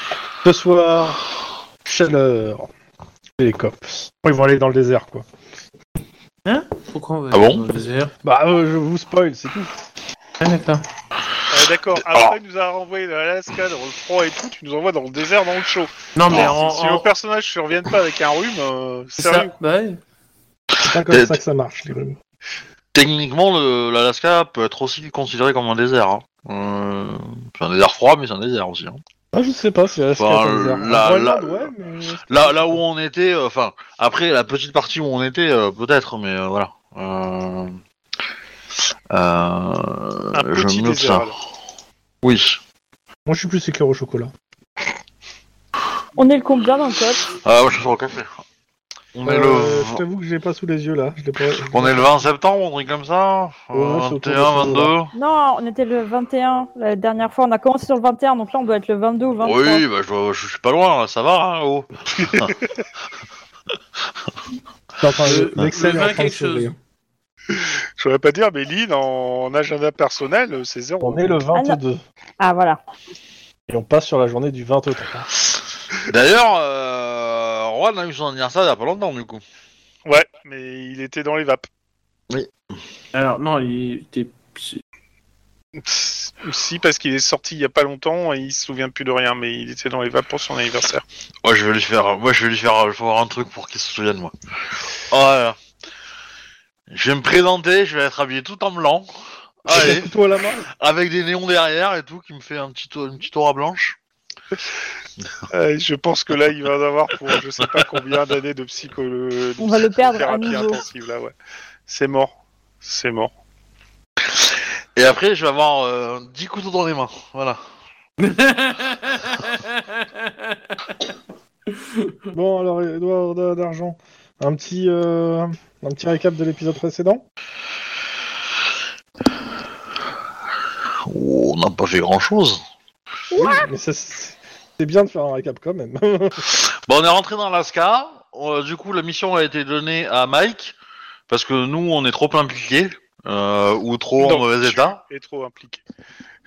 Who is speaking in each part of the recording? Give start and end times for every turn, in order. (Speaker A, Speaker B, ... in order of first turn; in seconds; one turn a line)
Speaker A: 0.4-1.2
Speaker A: 1.8-2.7
Speaker A: 3.4-5.2
Speaker B: 6.4-8.1
Speaker C: 7.3-7.6
Speaker A: 8.2-9.7
Speaker B: 10.4-10.8
Speaker D: 11.5-19.5
Speaker C: 12.1-12.3
Speaker B: 16.1-17.1
Speaker B: 19.2-20.0
Speaker C: 20.8-21.4
Speaker A: 20.8-22.2
Speaker C: 22.9-29.0
Speaker A: 29.3-32.8
Speaker C: 30.2-31.7
Speaker C: 32.3-37.8
Speaker C: 39.1-41.3
Speaker D: 40.3-41.3
Speaker C: 42.2-42.6
Speaker A: 43.2-44.3
Speaker E: 46.2-47.3
Speaker C: 47.4-48.4
Speaker C: 49.1-50.0
Speaker A: 49.2-52.1
Speaker C: 51.6-55.1
Speaker A: 53.7-54.9
Speaker E: 55.1-59.8
Speaker C: 59.4-62.5
Speaker A: 65.0-66.7
Speaker B: 65.2-66.8
Speaker D: 67.5-71.3
Speaker A: 71.0-72.0
Speaker E: 71.5-71.8
Speaker E: 72.4-72.8
Speaker A: 73.7-75.3
Speaker C: 76.1-79.4
Speaker D: 80.1-81.7
Speaker B: 83.1-84.8
Speaker D: 85.8-91.0
Speaker C: 91.4-94.3
Speaker C: 95.1-95.6
Speaker C: 96.9-100.1
Speaker A: 99.7-100.7
Speaker C: 100.7-104.0
Speaker D: 105.5-111.3
Speaker E: 109.6-110.8
Speaker D: 111.9-113.3
Speaker C: 114.2-117.6
Speaker B: 118.2-120.6
Speaker B: 121.8-122.1
Speaker A: 122.3-127.2
Speaker C: 131.1-132.6
Speaker A: 133.3-136.4
Speaker C: 136.4-140.8
Speaker C: 141.3-145.0
Speaker D: 144.2-145.8